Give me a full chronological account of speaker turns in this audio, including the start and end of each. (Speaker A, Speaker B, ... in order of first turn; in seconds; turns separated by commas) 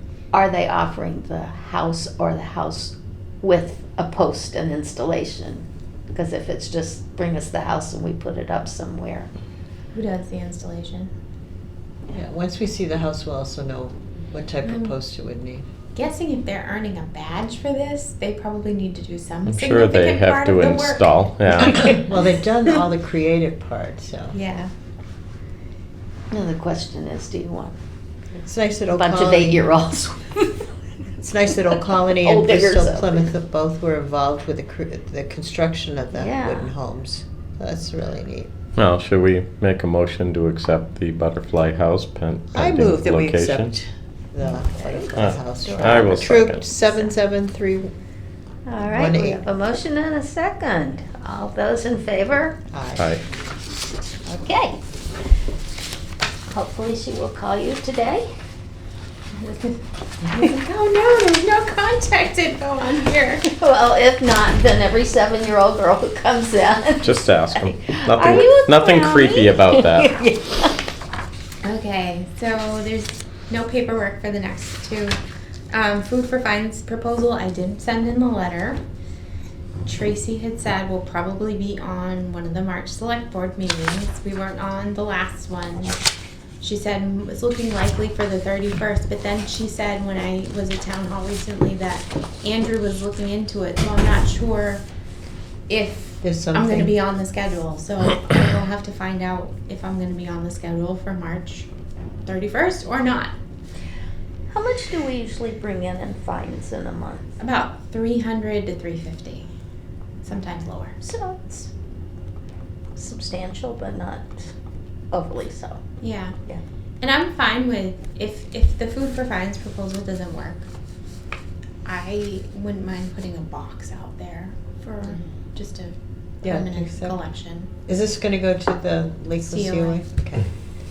Speaker A: 0.3-9.3, Speaker B: 9.9-11.1, Speaker C: 12.1-15.7, Speaker B: 14.7-14.9, Speaker B: 15.9-21.8, Speaker D: 19.5-21.9, Speaker C: 21.7-24.4, Speaker B: 24.3-24.7, Speaker A: 26.3-27.8, Speaker C: 28.3-29.7, Speaker A: 28.9-30.6, Speaker C: 31.2-38.5, Speaker A: 32.1-33.3, Speaker A: 36.1-36.7, Speaker D: 38.8-43.7, Speaker C: 42.5-47.9, Speaker A: 44.4-46.3, Speaker D: 45.1-46.6, Speaker A: 48.7-52.6, Speaker C: 48.9-49.4, Speaker C: 52.7-53.1, Speaker A: 54.3-54.8, Speaker A: 56.5-58.3, Speaker B: 59.4-63.5, Speaker A: 63.5-70.8, Speaker D: 67.0-70.1, Speaker B: 71.6-75.2, Speaker B: 75.7-78.8, Speaker B: 79.8-86.1, Speaker B: 86.6-94.8, Speaker B: 95.7-101.7, Speaker C: 96.2-97.0, Speaker B: 102.2-103.3, Speaker A: 104.5-107.2, Speaker B: 107.4-109.5, Speaker B: 110.2-111.1, Speaker A: 111.0-111.7, Speaker A: 113.0-114.5, Speaker A: 115.1-115.8, Speaker B: 116.0-116.3, Speaker B: 117.0-120.7, Speaker B: 121.8-127.7, Speaker C: 126.4-127.2, Speaker C: 127.9-130.5, Speaker B: 129.4-130.0